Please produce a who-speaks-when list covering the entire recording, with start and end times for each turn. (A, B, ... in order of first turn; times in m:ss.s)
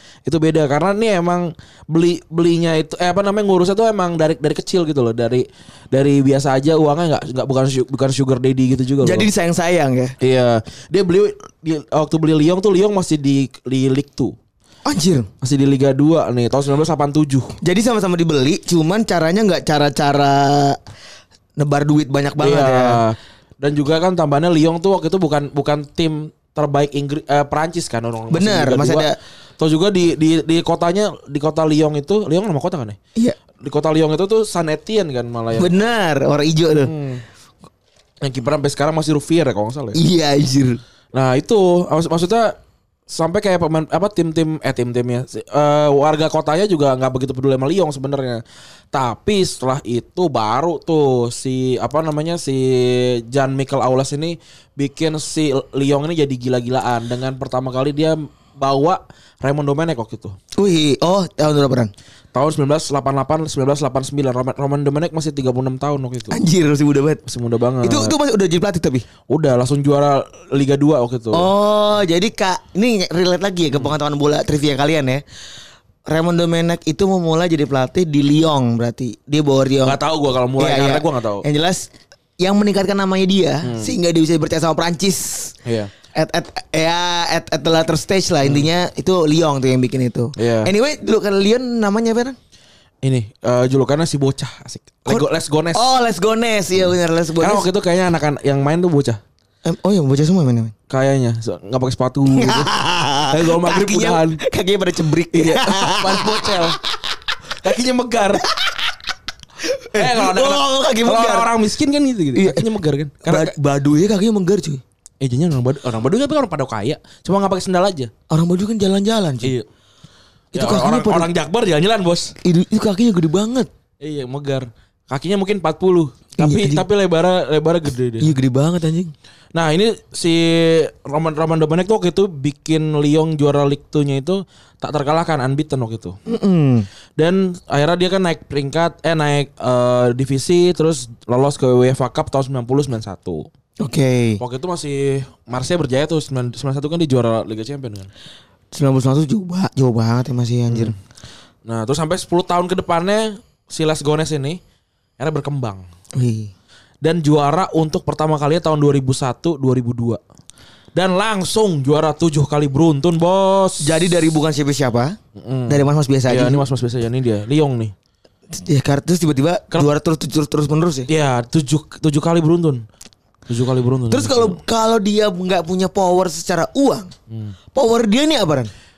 0:00.2-0:09.3 A
0:09.0-0:10.1 B
0:10.2-0:14.3 A
0:14.8-0:15.3 B
0:15.4-0:17.6 A
0:17.6-0:20.8 B
0:21.6-0:23.0 B
0:22.4-0:33.0 A
0:28.3-0:29.2 B
0:33.6-0:35.7 A
0:35.6-0:36.9 B
0:36.8-0:37.2 A
0:38.2-0:40.0 A
0:39.9-0:40.8 B
0:41.1-0:42.5 A
0:43.1-0:48.4 A
0:48.9-1:00.4 A
1:00.6-1:01.9 B
1:02.3-1:06.4 A
1:06.3-1:07.2 B
1:07.2-1:08.1 A
1:07.8-1:09.0 B
1:09.3-1:11.5 A
1:11.3-1:15.2 B
1:16.1-1:20.0 B
1:19.8-1:21.4 A
1:20.6-1:25.6 B
1:23.6-1:23.9 A
1:25.6-1:25.9 A
1:26.1-1:32.4 B
1:28.4-1:28.7 A
1:30.4-1:30.7 A
1:33.0-1:35.8 A
1:35.0-1:37.7 B
1:36.8-1:39.2 A
1:39.6-1:40.7 B
1:40.9-1:42.7 A
1:42.3-1:46.7 B
1:43.3-1:44.4 A
1:45.3-1:46.8 A
1:47.6-1:48.5 A
1:48.4-1:48.8 B
1:49.6-1:51.5 B
1:49.9-1:53.5 A
1:52.3-1:52.7 B
1:53.2-1:54.8 B
1:55.2-1:58.1 A
1:58.3-1:59.5 B
1:59.4-1:59.7 A
2:00.5-2:01.3 B
2:00.5-2:02.3 A
2:02.4-2:03.7 B
2:04.0-2:08.3 A
2:06.4-2:06.8 B
2:08.2-2:09.1 B
2:09.5-2:16.2 A
2:16.3-2:16.9 B
2:17.2-2:23.5 A
2:23.8-2:24.4 B
2:24.4-2:28.1 A
2:28.7-2:30.9 B
2:30.7-2:31.0 A
2:31.6-2:34.6 A
2:35.2-2:35.8 A
2:36.1-2:36.5 B
2:37.0-2:40.2 A
2:40.9-2:44.0 A
2:43.8-2:45.2 B
2:45.4-2:47.9 A
2:45.7-2:46.6 B
2:48.5-2:51.1 B
2:51.1-2:52.8 A
2:53.5-2:54.6 A
2:54.1-2:57.1 B
2:57.3-2:57.5 A
2:57.7-2:58.7 B